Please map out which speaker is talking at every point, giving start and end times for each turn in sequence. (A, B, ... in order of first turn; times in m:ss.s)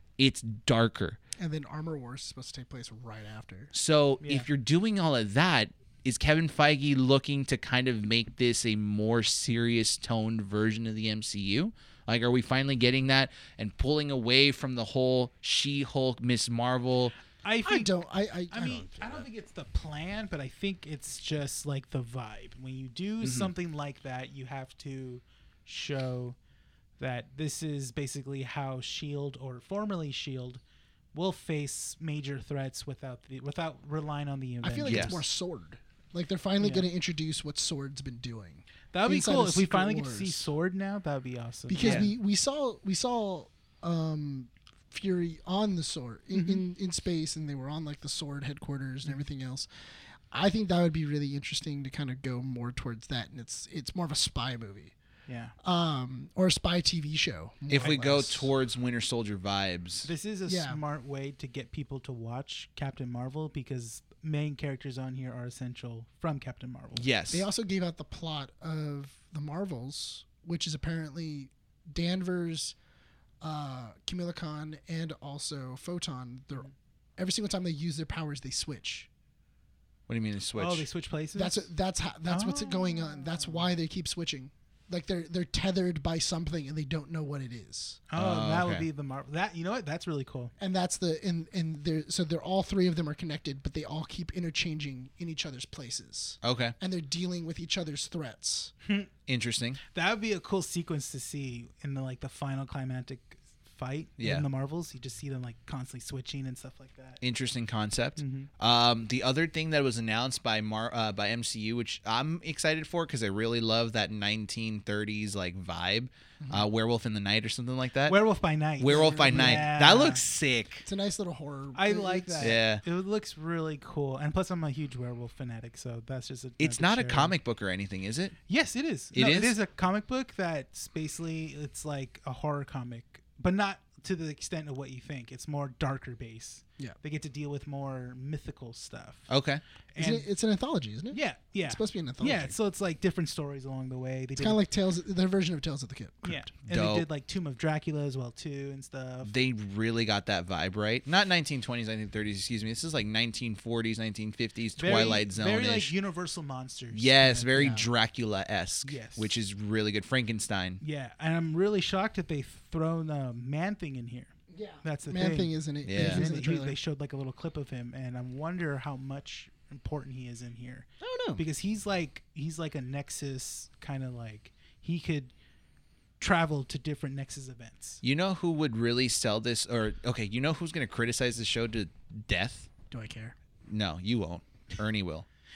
0:00.2-0:01.2 A
0:01.4-0:03.7 B
0:03.7-0:17.1 A
0:17.4-0:17.9 C
0:17.6-0:19.3 B
0:18.5-0:26.4 C
0:23.2-0:23.5 A
0:27.0-0:30.6 C
0:31.1-0:35.2 C
0:34.6-0:40.4 B
0:34.8-0:35.2 A
0:36.6-0:36.8 C
0:38.9-0:42.1 C
0:41.7-0:49.7 B
0:41.8-0:42.1 A
0:46.3-0:46.6 C
0:50.3-0:54.9 B
0:55.3-0:55.5 C
0:55.6-0:58.5 B
0:57.7-1:00.1 A
1:00.0-1:07.1 C
1:00.4-1:00.8 B
1:07.0-1:07.5 A
1:07.3-1:12.8 B
1:13.4-1:19.1 B
1:20.1-1:20.8 A
1:20.6-1:21.6 C
1:21.3-1:28.0 B
1:22.2-1:23.7 C
1:28.1-1:30.5 C
1:28.2-1:28.9 A
1:30.6-1:38.7 B
1:36.4-1:36.7 A
1:39.3-1:39.8 A
1:39.9-1:47.2 C
1:44.2-1:44.4 A
1:47.2-1:58.2 A
1:48.2-1:48.5 C
1:56.4-1:56.7 B
1:58.1-2:00.2 C
1:58.8-2:00.8 A
1:58.8-1:59.7 B
2:00.8-2:02.6 B
2:01.7-2:07.3 C
2:02.4-2:02.8 A
2:06.6-2:08.4 A
2:08.5-2:19.3 C
2:09.1-2:09.6 A
2:19.3-2:19.6 A
2:19.9-2:20.2 C
2:20.0-2:22.6 B
2:21.1-2:24.6 C
2:24.4-2:26.4 B
2:26.2-2:29.3 C
2:26.7-2:27.0 A
2:29.2-2:35.9 A
2:34.8-2:37.8 C
2:36.9-2:40.8 A
2:37.6-2:37.8 B
2:38.8-2:39.3 C
2:40.8-2:55.3 C
2:44.5-2:46.8 B
2:45.8-2:46.3 A
2:51.0-2:51.4 B
2:56.2-2:58.0 C
2:58.0-3:02.7 A
3:02.9-3:03.3 B
3:03.7-3:05.2 A